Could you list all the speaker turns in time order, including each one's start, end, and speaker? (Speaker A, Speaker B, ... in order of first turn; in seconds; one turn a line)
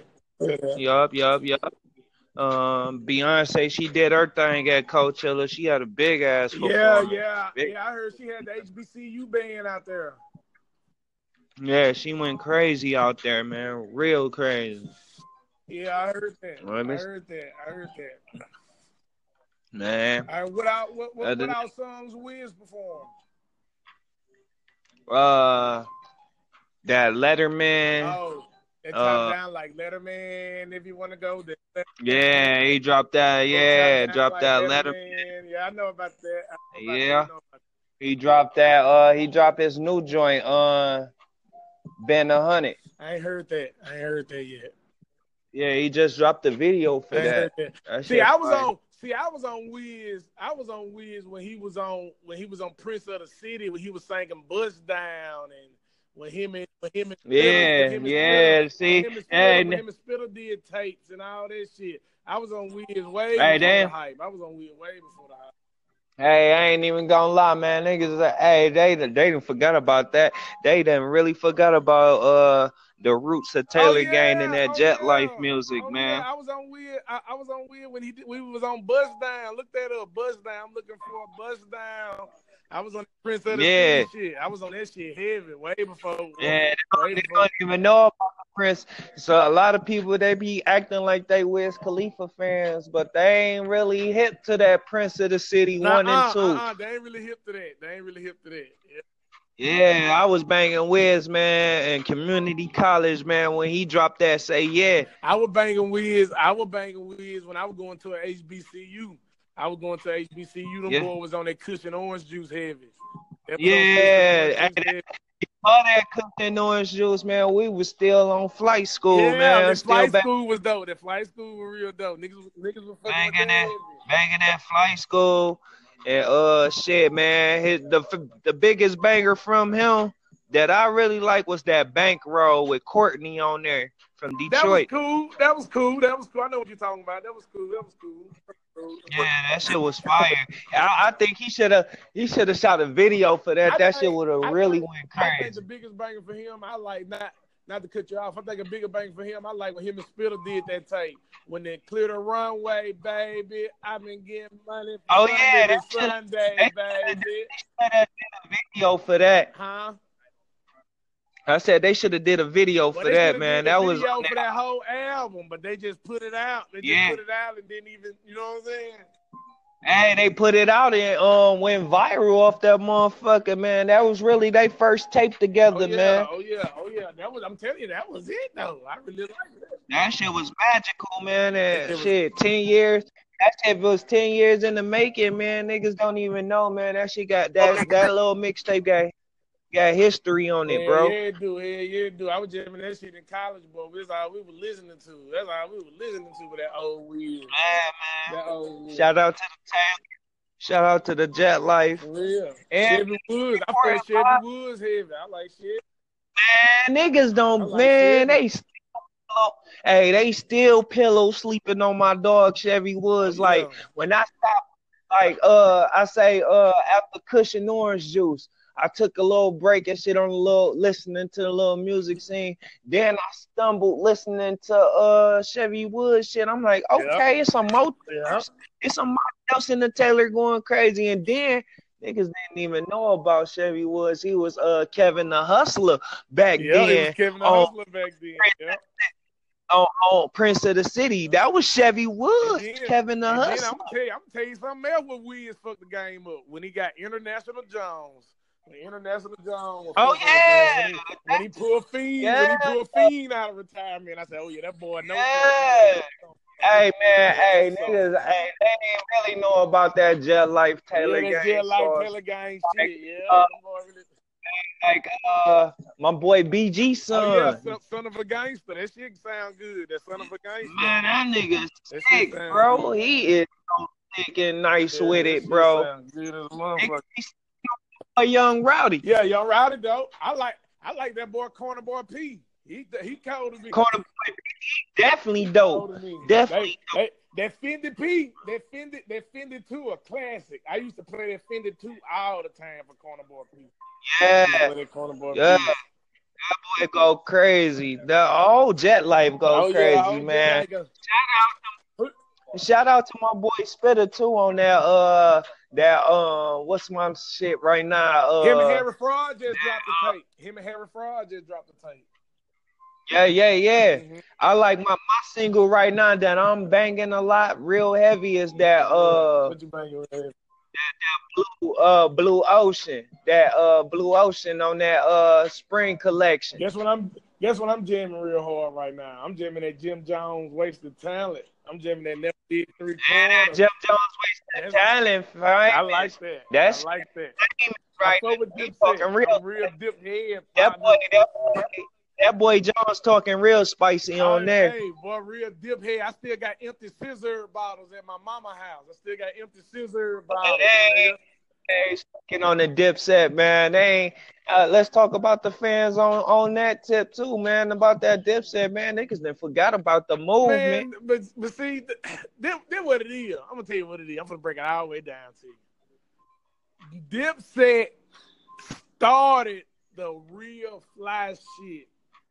Speaker A: 0.4-0.8
Speaker B: 0.8-1.6
Speaker B: 2.4-7.7
Speaker A: 6.5-10.2
Speaker B: 11.6-14.9
Speaker A: 15.7-18.2
Speaker B: 16.6-17.0
Speaker B: 19.7-20.3
Speaker A: 20.3-23.1
Speaker B: 21.2-21.6
Speaker B: 25.1-25.9
Speaker B: 26.8-28.2
Speaker A: 28.0-32.6
Speaker B: 28.9-29.4
Speaker B: 32.0-35.0
Speaker A: 33.5-37.6
Speaker B: 36.8-37.3
Speaker B: 38.0-41.1
Speaker B: 42.0-42.8
Speaker A: 43.0-44.7
Speaker B: 45.5-48.7
Speaker A: 47.1-65.5
Speaker B: 57.3-59.8
Speaker B: 63.3-63.9
Speaker B: 66.2-76.2
Speaker A: 73.7-87.5
Speaker B: 83.5-84.1
Speaker B: 86.4-96.6
Speaker A: 95.8-99.0
Speaker B: 99.6-105.1
Speaker A: 105.2-112.9
Speaker A: 113.5-115.0
Speaker B: 113.6-115.0
Speaker B: 115.6-120.2
Speaker A: 119.1-124.0
Speaker B: 123.1-134.9
Speaker A: 134.5-139.3
Speaker B: 139.1-145.6
Speaker A: 143.6-157.5
Speaker B: 155.1-159.5
Speaker A: 159.5-160.0
Speaker B: 161.5-164.4
Speaker A: 162.9-169.1
Speaker B: 166.8-167.2
Speaker B: 169.8-176.3
Speaker A: 175.7-179.8
Speaker B: 179.9-189.1
Speaker A: 181.7-182.1
Speaker A: 187.7-188.0
Speaker B: 189.7-191.2
Speaker A: 190.6-197.5
Speaker B: 197.5-198.3
Speaker A: 198.3-199.1
Speaker B: 198.9-200.0
Speaker B: 200.6-202.0
Speaker A: 202.0-205.8
Speaker B: 202.7-204.4
Speaker B: 206.4-208.7
Speaker A: 207.6-208.4
Speaker B: 209.2-237.7
Speaker A: 213.2-213.8
Speaker A: 226.9-227.2
Speaker A: 228.1-228.4
Speaker A: 236.6-238.8
Speaker B: 238.4-238.8
Speaker B: 239.7-243.9
Speaker A: 242.4-258.0
Speaker B: 250.0-251.4
Speaker B: 252.2-253.1
Speaker B: 255.1-256.0
Speaker B: 256.6-262.1
Speaker A: 260.9-264.1
Speaker B: 262.8-263.5
Speaker B: 264.5-267.6
Speaker A: 267.1-271.0
Speaker B: 270.6-275.9
Speaker A: 271.9-272.9
Speaker A: 274.9-277.0
Speaker B: 276.8-279.0
Speaker A: 279.0-283.8
Speaker B: 283.7-287.0
Speaker A: 285.4-293.7
Speaker B: 294.0-294.7
Speaker A: 294.4-295.7
Speaker B: 295.3-295.7
Speaker B: 296.4-301.7
Speaker A: 299.5-300.9
Speaker B: 302.5-308.8
Speaker A: 308.4-312.1
Speaker B: 309.6-310.1
Speaker B: 313.1-319.5
Speaker A: 313.9-314.2
Speaker A: 318.8-320.3
Speaker B: 320.7-326.6
Speaker A: 326.6-333.6
Speaker B: 333.0-336.9
Speaker A: 334.5-334.9
Speaker A: 335.7-337.4
Speaker B: 337.4-339.7
Speaker A: 338.0-341.1
Speaker B: 340.6-344.7
Speaker A: 344.1-351.2
Speaker B: 350.3-351.1
Speaker B: 351.7-360.9
Speaker A: 360.4-365.6
Speaker A: 366.9-367.9
Speaker A: 369.0-371.9